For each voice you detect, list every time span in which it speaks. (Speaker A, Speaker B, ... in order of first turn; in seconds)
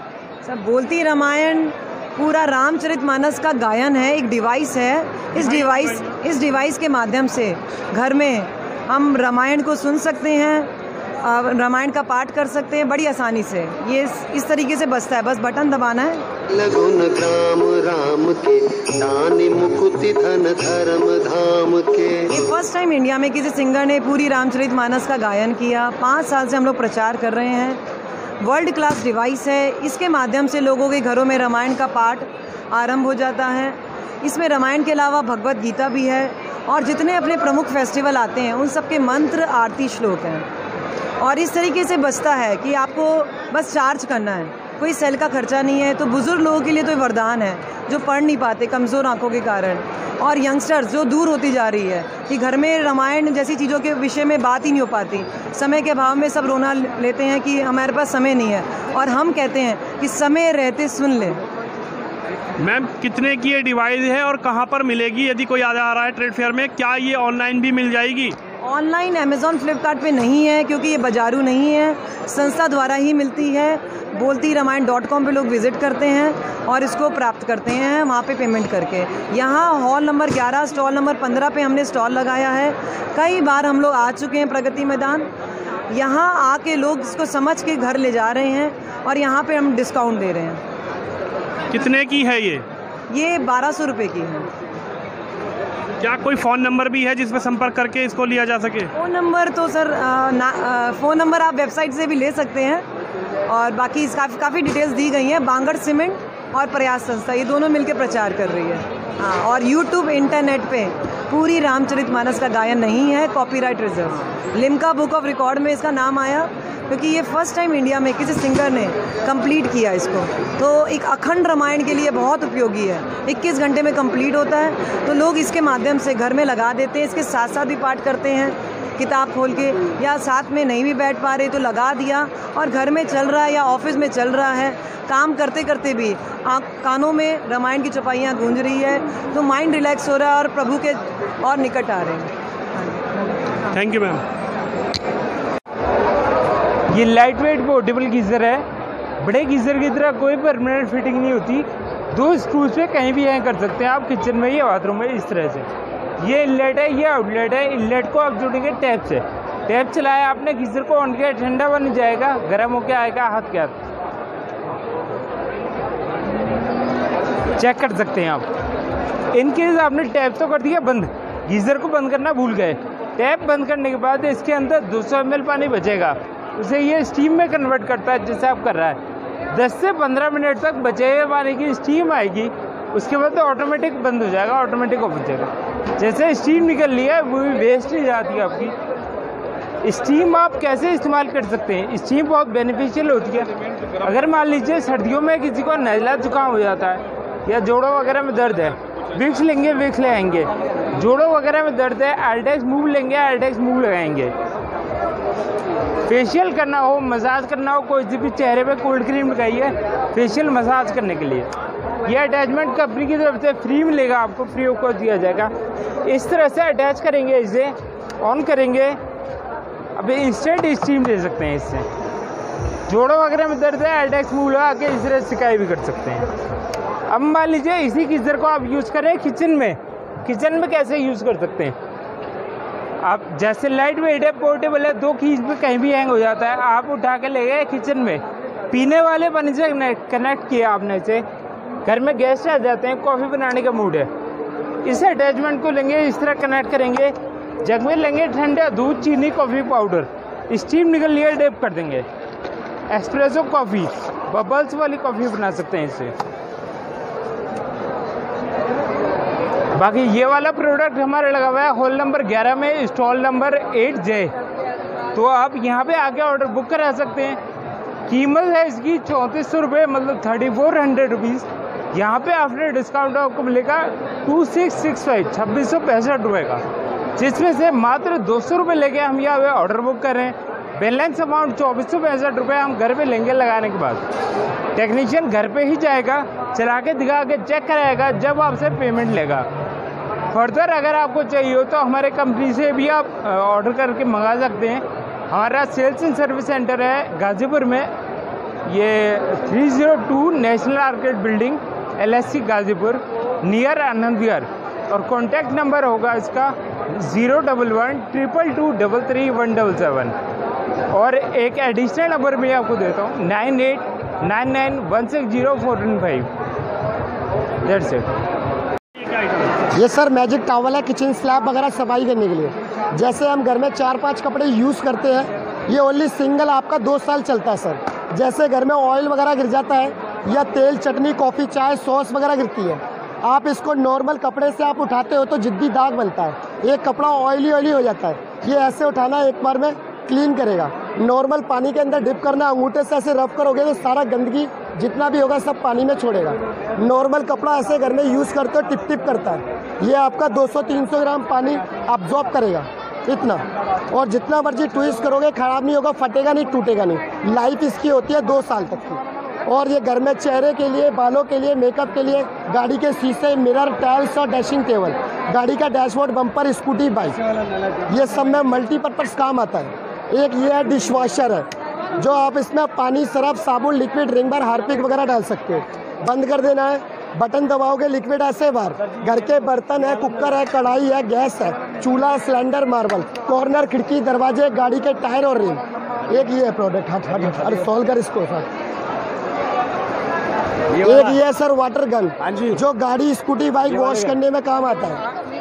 Speaker A: 0.4-10.7, 11.2-16.2, 22.3-27.8, 28.4-40.5, 41.2-61.4, 68.6-85.3, 85.9-90.6, 93.1-94.5, 99.0-102.8, 103.5-142.9
Speaker B: 5.5-5.9, 62.6-68.3, 91.7-92.6, 96.0-98.9, 143.7-144.2, 319.0-319.5
Speaker C: 16.5-22.5
Speaker D: 146.9-148.6, 149.2-163.8, 167.6-168.5, 169.3-179.0, 179.5-188.7, 189.8-204.3, 206.1-211.5, 212.0-215.5, 216.0-219.0, 219.9-221.8, 222.9-226.3, 227.1-231.8, 233.0-241.2, 241.8-244.1, 244.8-252.1, 252.9-256.1, 259.7-264.3, 265.1-267.4, 268.1-276.6, 277.1-284.0, 284.7-289.5, 290.3-297.9, 298.6-310.1, 310.9-316.3, 317.6-318.1
Speaker E: 319.7-367.2, 367.9-388.5, 390.8-395.0